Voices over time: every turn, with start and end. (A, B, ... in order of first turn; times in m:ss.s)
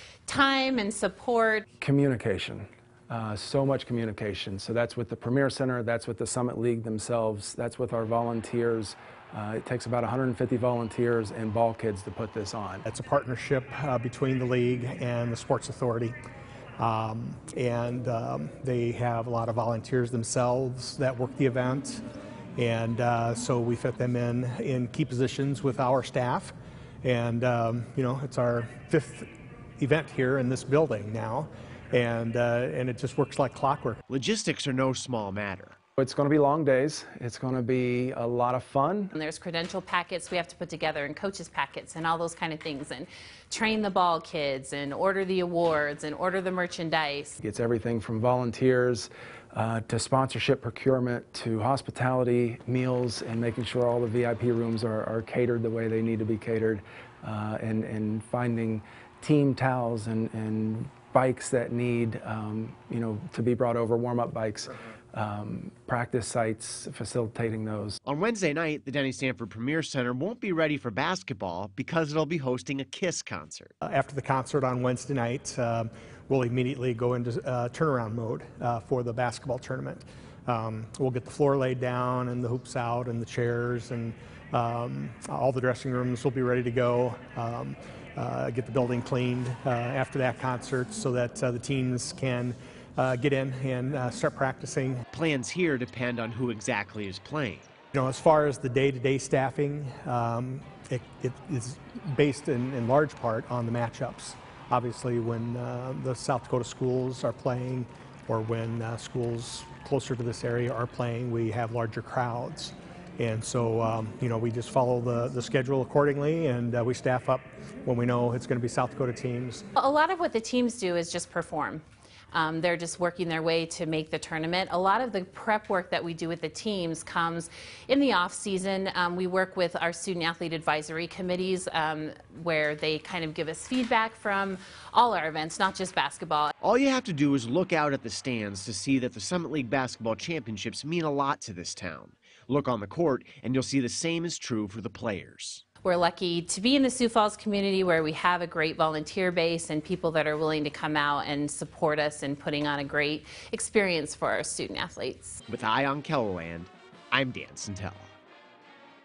0:00.3-0:01.6 A
0:01.8-0:12.8 B
0:12.9-0:16.2 C
0:16.8-0:22.0 C
0:22.6-0:29.3 C
0:29.8-0:34.0 C
0:34.1-0:35.8 D
0:36.0-0:39.1 B
0:39.2-0:47.4 A
0:47.4-1:08.0 B
1:08.1-1:13.7 D
1:13.8-1:35.0 C
1:35.1-1:37.7 D
1:37.9-1:59.6 C
1:59.8-2:01.8 A
2:02.3-2:16.5 A
2:16.6-2:25.6 D
2:25.8-2:35.4 A
2:35.5-2:38.1 D